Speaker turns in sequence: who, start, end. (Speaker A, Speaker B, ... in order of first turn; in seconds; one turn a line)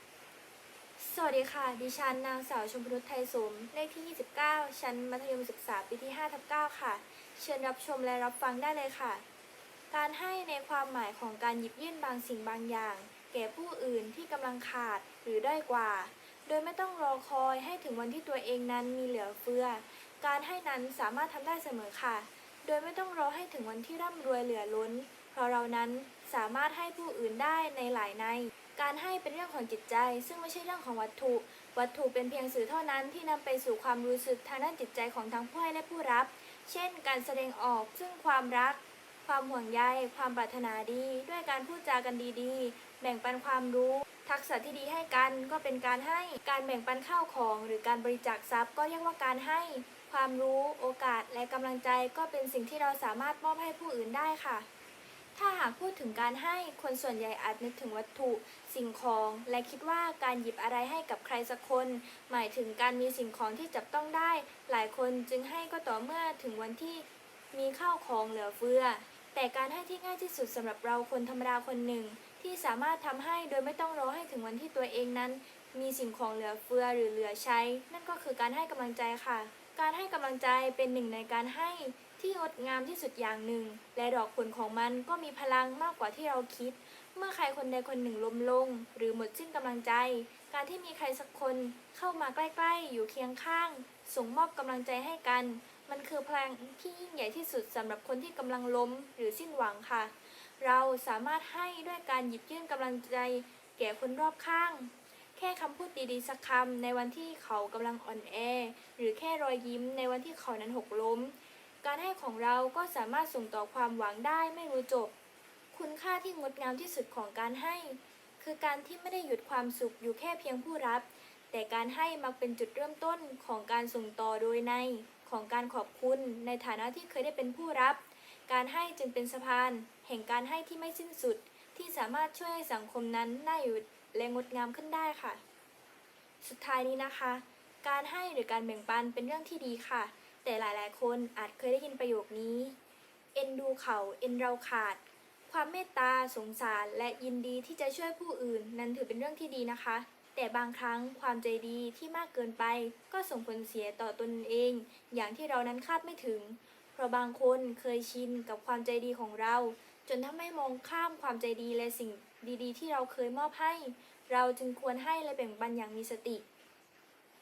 Speaker A: 1.0-9.2
Speaker A: 9.9-54.7
Speaker A: 55.4-115.1
Speaker A: 115.7-135.4
Speaker A: 136.4-142.8
Speaker A: 143.3-166.4